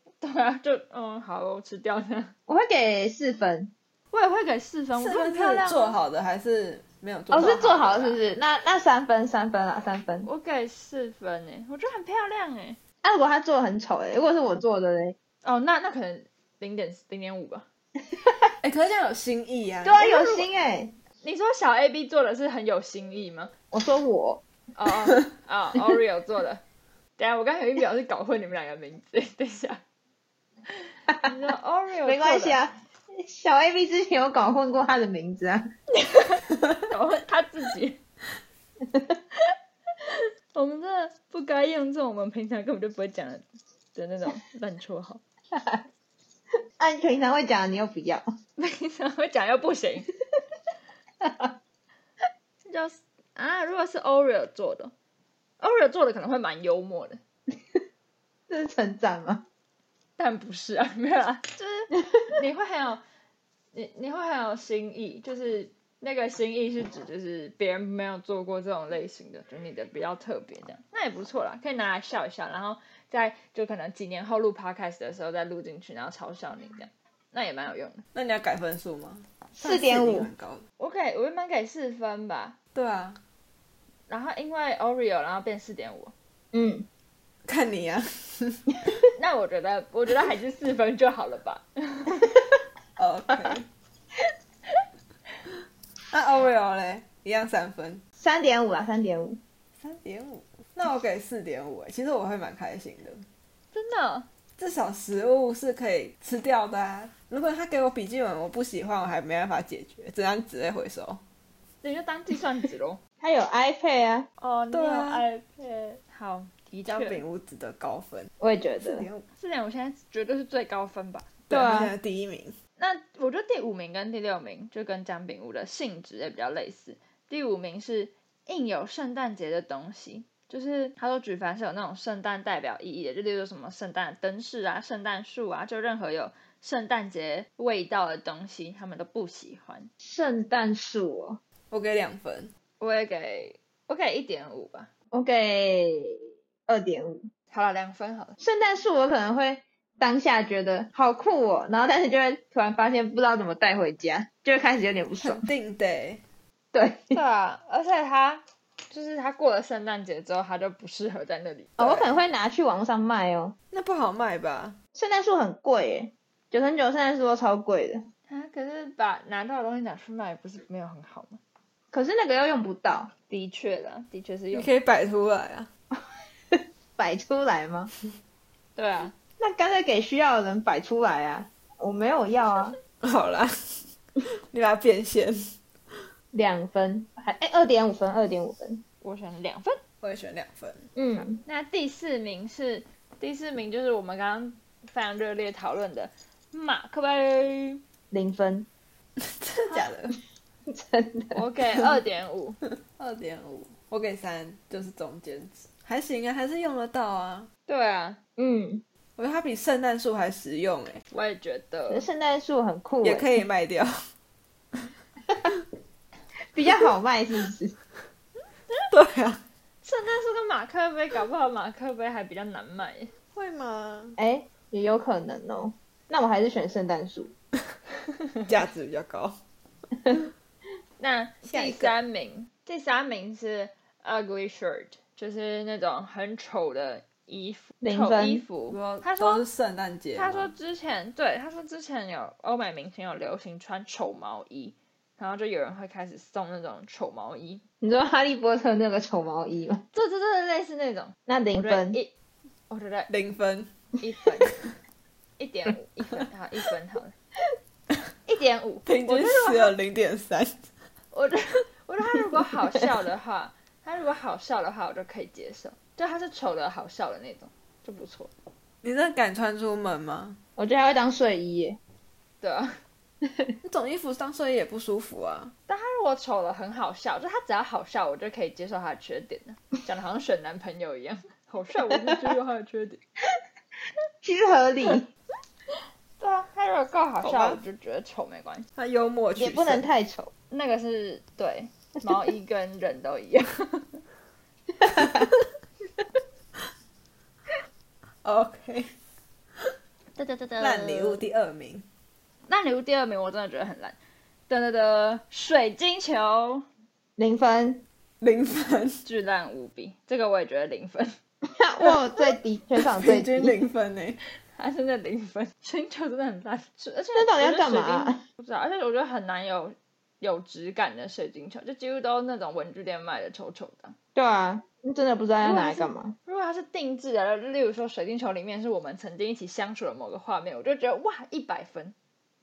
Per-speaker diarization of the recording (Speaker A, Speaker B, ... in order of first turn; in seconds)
Speaker A: 0.2-2.3, 4.1-6.0, 7.3-8.2, 10.3-12.8, 15.4-17.7, 20.0-20.5, 21.2-23.5, 24.8-26.6, 27.2-29.8, 31.2-32.6, 36.0-38.0, 40.1-43.4, 44.0-45.2, 48.6-50.1, 52.6-54.9, 55.6-57.2, 60.2-63.0, 63.7-78.0, 80.8-82.6, 84.1-86.1, 89.2-92.2, 103.7-104.3, 111.8-113.0, 114.4-117.2, 119.4-121.5, 122.8-139.9, 142.8-144.9, 147.5-148.3, 157.1-162.2, 168.3-171.4, 173.3-174.7, 178.8-179.2, 189.0-189.8, 191.2-197.8, 201.3-202.6, 207.7-208.2, 211.1-212.1, 219.8-223.1, 231.0-239.5, 240.2-247.6, 249.9-252.1, 252.7-253.1, 254.0-254.6, 255.4-257.1, 258.3-259.8, 261.1-268.3, 272.4-272.7, 275.7-283.0, 286.2-288.7, 290.5-294.0, 300.2-301.2, 302.5-304.0, 304.5-306.6, 309.1-311.1, 314.6-323.9, 325.4-331.9
Speaker B: 2.5-3.7, 7.3-10.3, 13.0-15.2, 18.2-18.5, 19.8-20.9, 23.7-24.4, 32.0-35.6, 45.5-45.8, 46.8-48.3, 51.2-51.5, 58.5-59.4, 79.6-80.3, 86.5-86.9, 98.2-99.4, 113.2-114.3, 118.4-119.1, 121.5-121.9, 140.0-141.4, 145.1-147.3, 148.4-155.5, 156.7-157.2, 161.8-163.5, 164.9-168.1, 171.9-173.1, 176.5-177.9, 179.4-182.8, 186.3-188.8, 190.9-191.4, 198.1-198.7, 200.7-201.4, 208.4-208.8, 211.9-213.4, 216.5-217.8, 224.2-227.3, 237.8-238.4, 247.8-249.8, 251.3-252.0, 270.6-271.8, 273.3-273.6, 281.9-282.3, 284.2-285.1, 289.4-290.3, 294.8-295.3, 307.2-307.8, 311.5-313.6, 317.1-318.2, 324.1-326.2
Speaker C: 4.9-7.9, 18.6-20.0, 78.1-80.6, 82.8-83.2, 87.5-88.7, 93.0-93.7, 96.1-98.0, 99.8-103.2, 104.6-111.2, 114.7-115.3, 116.8-118.3, 118.8-119.2, 121.5-122.6, 141.7-142.5, 155.2-156.2, 163.7-164.8, 174.5-175.7, 183.0-185.4, 190.0-190.9, 199.2-200.2, 203.0-207.5, 209.2-211.0, 213.0-213.9, 218.9-219.4, 223.3-224.2, 228.5-229.4, 231.4-231.9, 238.7-240.5, 253.1-253.7, 258.9-260.6, 268.8-270.4, 273.6-275.5, 287.2-287.6, 288.8-289.9, 298.2-298.9, 300.6-301.9, 308.2-309.0, 312.8-314.2